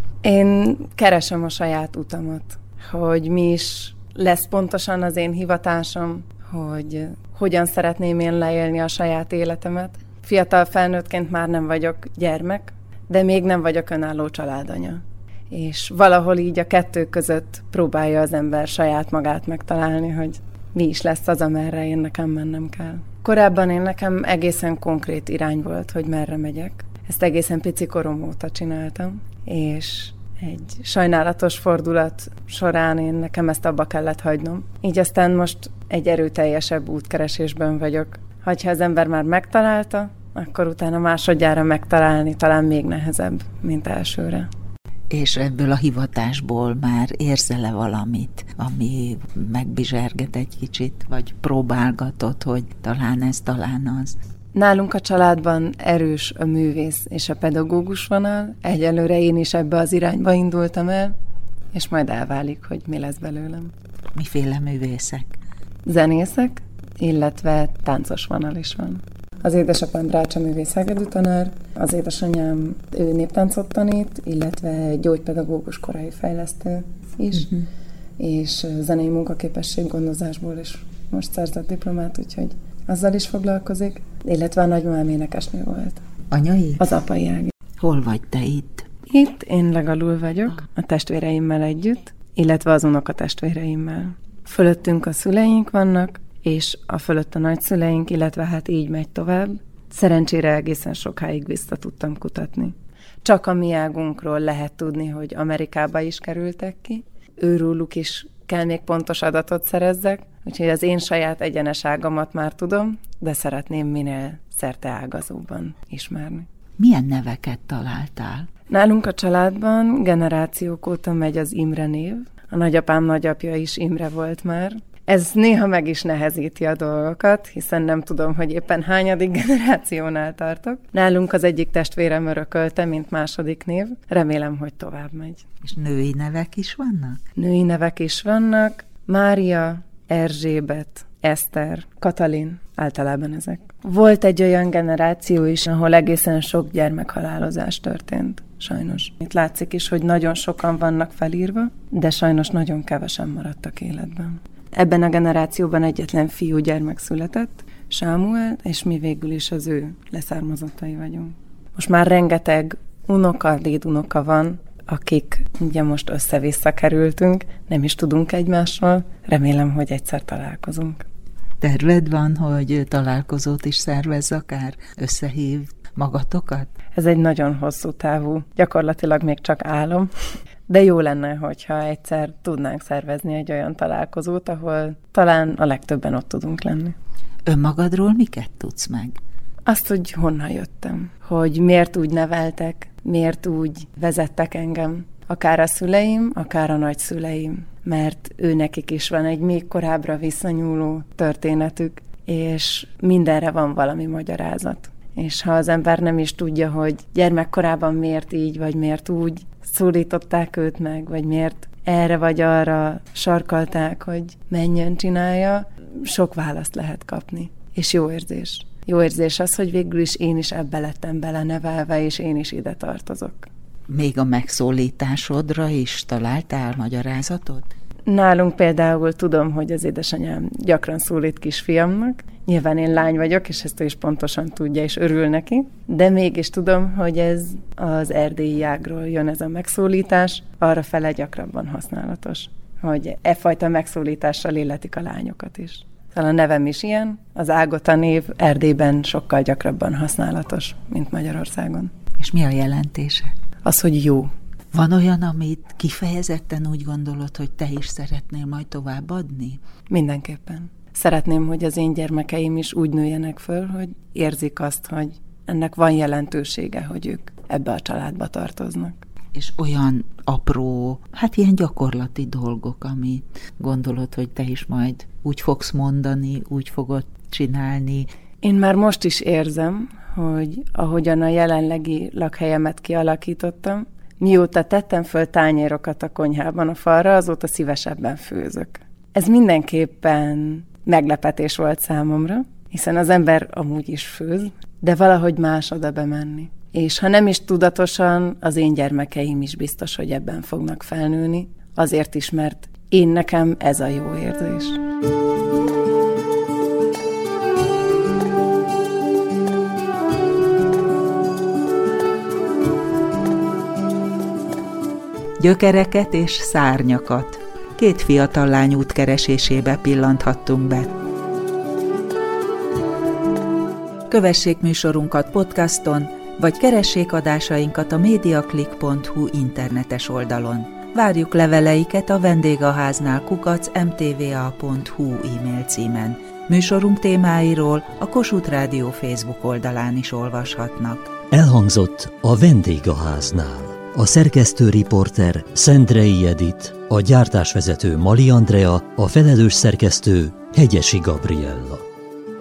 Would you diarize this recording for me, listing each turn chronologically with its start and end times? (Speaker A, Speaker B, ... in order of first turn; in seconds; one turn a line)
Speaker A: 0.2-44.5
Speaker B: 45.1-54.2
Speaker A: 54.6-61.1
Speaker A: 61.7-63.7
Speaker B: 64.2-65.4
Speaker A: 65.9-77.5
Speaker A: 78.2-86.0
Speaker B: 86.3-86.8
Speaker A: 86.8-87.5
Speaker B: 87.8-88.9
Speaker A: 89.1-116.5
Speaker B: 116.8-118.5
Speaker A: 118.7-135.4
Speaker B: 135.6-137.2
Speaker A: 137.4-171.1
Speaker B: 171.6-176.7
Speaker A: 177.0-180.1
Speaker A: 180.7-186.9
Speaker B: 187.5-189.2
Speaker A: 189.7-223.5
Speaker B: 223.9-227.7
Speaker A: 228.1-251.9
Speaker B: 252.2-253.3
Speaker A: 253.7-254.3
Speaker B: 254.7-259.6
Speaker A: 259.9-269.0
Speaker B: 269.3-278.1
Speaker A: 278.4-304.8
Speaker B: 315.4-320.9
Speaker B: 324.1-341.1
Speaker C: 341.3-351.9